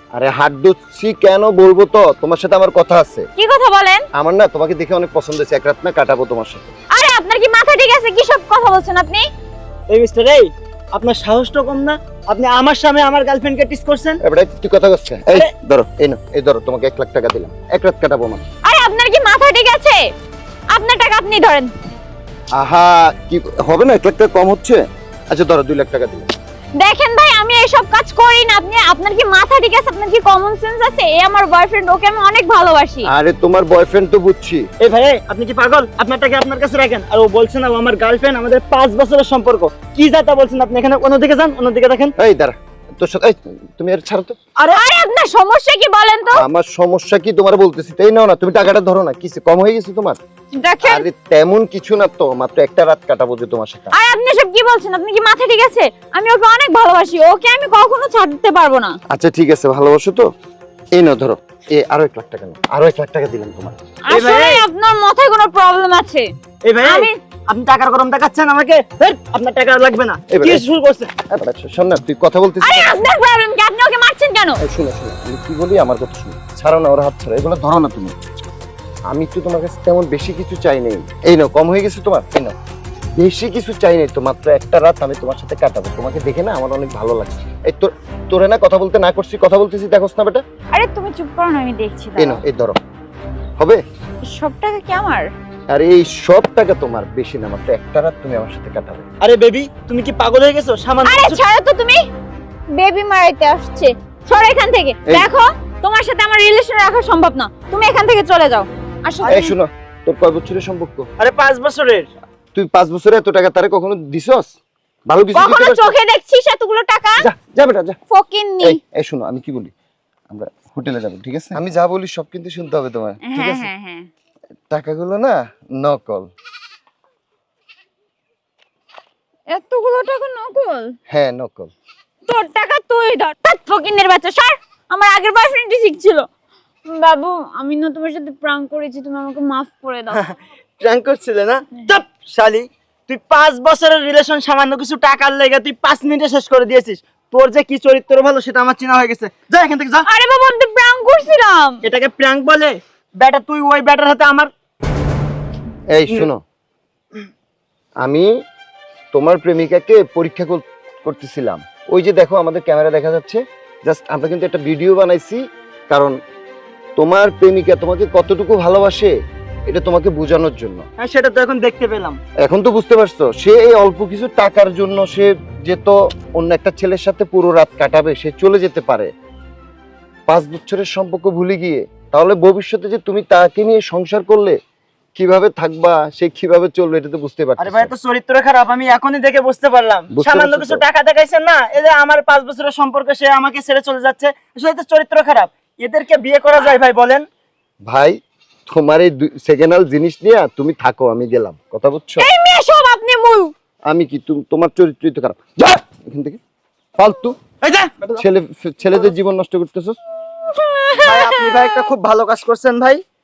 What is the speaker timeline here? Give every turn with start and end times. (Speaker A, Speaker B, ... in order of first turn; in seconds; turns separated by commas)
Speaker A: 0.1-3.3, Speaker B: 3.4-4.0, Speaker A: 4.2-6.7, Speaker B: 6.9-9.3, Speaker C: 9.9-14.2, Speaker A: 14.2-18.4, Speaker B: 18.6-20.0, Speaker B: 20.7-21.7, Speaker A: 22.5-26.3, Speaker B: 26.8-33.1, Speaker A: 33.0-34.6, Speaker C: 34.8-42.1, Speaker A: 42.2-44.4, Speaker C: 44.6-44.8, Speaker B: 44.7-46.4, Speaker A: 46.4-50.2, Speaker B: 50.6-51.0, Speaker A: 50.8-53.9, Speaker B: 53.9-59.0, Speaker A: 59.1-60.3, Speaker A: 60.9-63.8, Speaker B: 64.0-66.3, Speaker C: 64.1-64.6, Speaker C: 66.6-71.1, Speaker B: 66.8-67.1, Speaker A: 70.3-70.6, Speaker A: 71.3-73.0, Speaker B: 72.6-74.6, Speaker A: 74.6-78.1, Speaker A: 79.1-82.5, Speaker A: 83.2-90.4, Speaker B: 90.7-92.4, Speaker A: 92.2-92.8, Speaker B: 94.2-95.3, Speaker A: 95.7-99.0, Speaker C: 99.2-101.4, Speaker B: 101.0-102.0, Speaker B: 102.7-109.5, Speaker A: 109.3-111.1, Speaker C: 111.2-112.1, Speaker A: 112.5-114.5, Speaker A: 115.1-115.9, Speaker B: 115.3-117.3, Speaker A: 117.2-118.0, Speaker B: 118.1-118.8, Speaker A: 118.6-119.7, Speaker A: 120.3-123.7, Speaker B: 123.2-124.1, Speaker A: 124.7-126.3, Speaker B: 129.5-130.9, Speaker A: 131.1-131.7, Speaker B: 132.3-136.2, Speaker B: 136.8-140.2, Speaker C: 140.1-150.1, Speaker B: 150.1-151.8, Speaker C: 151.8-154.5, Speaker A: 155.9-156.4, Speaker A: 158.0-158.3, Speaker A: 159.1-166.2, Speaker A: 167.0-169.1, Speaker A: 169.7-170.8, Speaker C: 171.0-172.2, Speaker A: 172.4-179.1, Speaker A: 180.3-184.6, Speaker A: 185.2-187.9, Speaker C: 187.6-197.2, Speaker A: 190.1-190.8, Speaker A: 197.9-198.2, Speaker A: 198.7-202.3, Speaker B: 202.2-203.5, Speaker A: 203.9-206.4, Speaker A: 207.0-207.4, Speaker C: 207.6-208.2, Speaker A: 208.2-209.9, Speaker B: 210.5-211.7, Speaker C: 211.0-213.0